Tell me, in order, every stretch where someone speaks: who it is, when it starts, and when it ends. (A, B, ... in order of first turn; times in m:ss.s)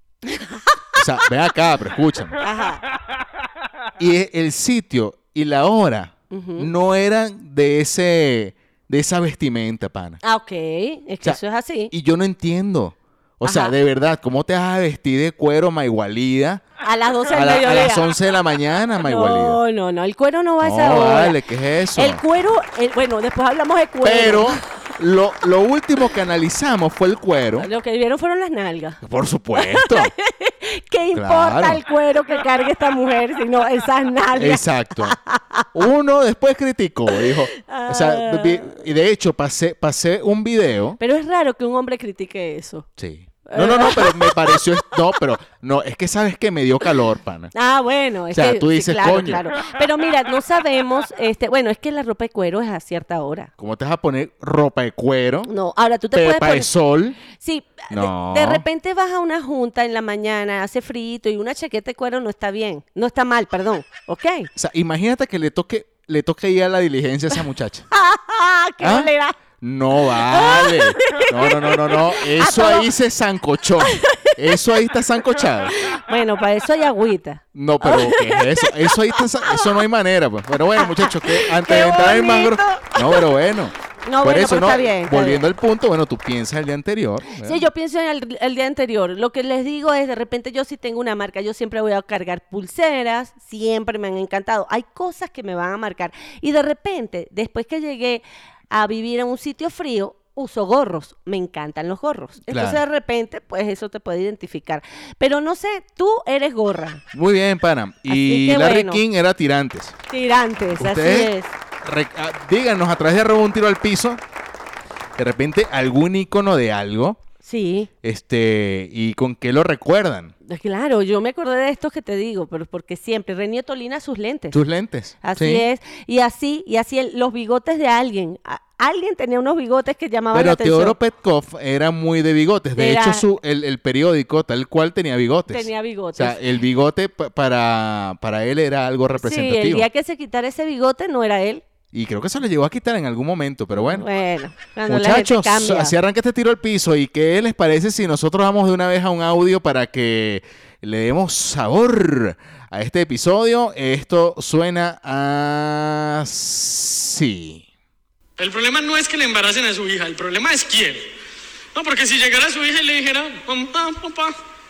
0:00.2-0:00.8 A
0:01.0-0:02.4 B
0:02.4-0:02.8 A
0:04.0-0:10.2 B
0:06.3-0:06.7 A
0:10.2-0:11.9 A
0:11.9-0:16.6 B
0:13.4-0:13.8 A
0:16.8-0:18.1 A
0:17.3-0:19.6 B
0:19.0-0:21.4 A
0:20.6-0:22.2 B
0:21.9-0:24.6 A
0:24.0-0:27.7 B
0:27.6-0:29.0 A
0:29.0-0:30.1 B
0:29.6-0:35.7 A
0:31.1-0:31.8 B
0:34.3-0:35.2 B
0:35.7-0:41.0 B
0:37.5-0:38.7 A
0:41.0-0:42.8 A
0:43.0-0:47.5 B
0:43.4-0:45.0 A
0:47.5-0:53.5 A
0:48.3-0:49.4 B
0:53.6-0:55.5 B
0:55.5-0:56.7 A
0:56.1-0:57.2 B
0:57.2-1:04.5 A
0:57.9-0:58.6 B
1:04.5-1:07.9 B
1:07.9-1:09.4 A
1:08.8-1:15.7 B
1:10.0-1:12.9 A
1:13.8-1:14.5 A
1:15.8-1:19.7 A
1:17.5-1:27.6 B
1:20.8-1:23.2 A
1:24.0-1:25.4 A
1:27.4-1:47.0 A
1:42.5-1:42.8 B
1:47.1-1:50.0 B
1:48.1-1:49.0 A
1:50.1-1:51.5 A
1:50.8-1:51.3 B
1:51.8-1:54.2 B
1:55.2-1:57.2 B
1:57.4-1:57.9 A
1:58.0-2:00.3 B
2:00.4-2:04.6 A
2:04.5-2:05.6 B
2:05.2-2:11.0 A
2:10.3-2:19.9 B
2:12.8-2:13.2 A
2:15.5-2:16.4 A
2:19.2-2:21.6 A
2:21.9-2:24.0 B
2:23.8-2:25.9 A
2:24.9-2:37.6 B
2:38.4-2:41.1 C
2:41.7-2:44.3 C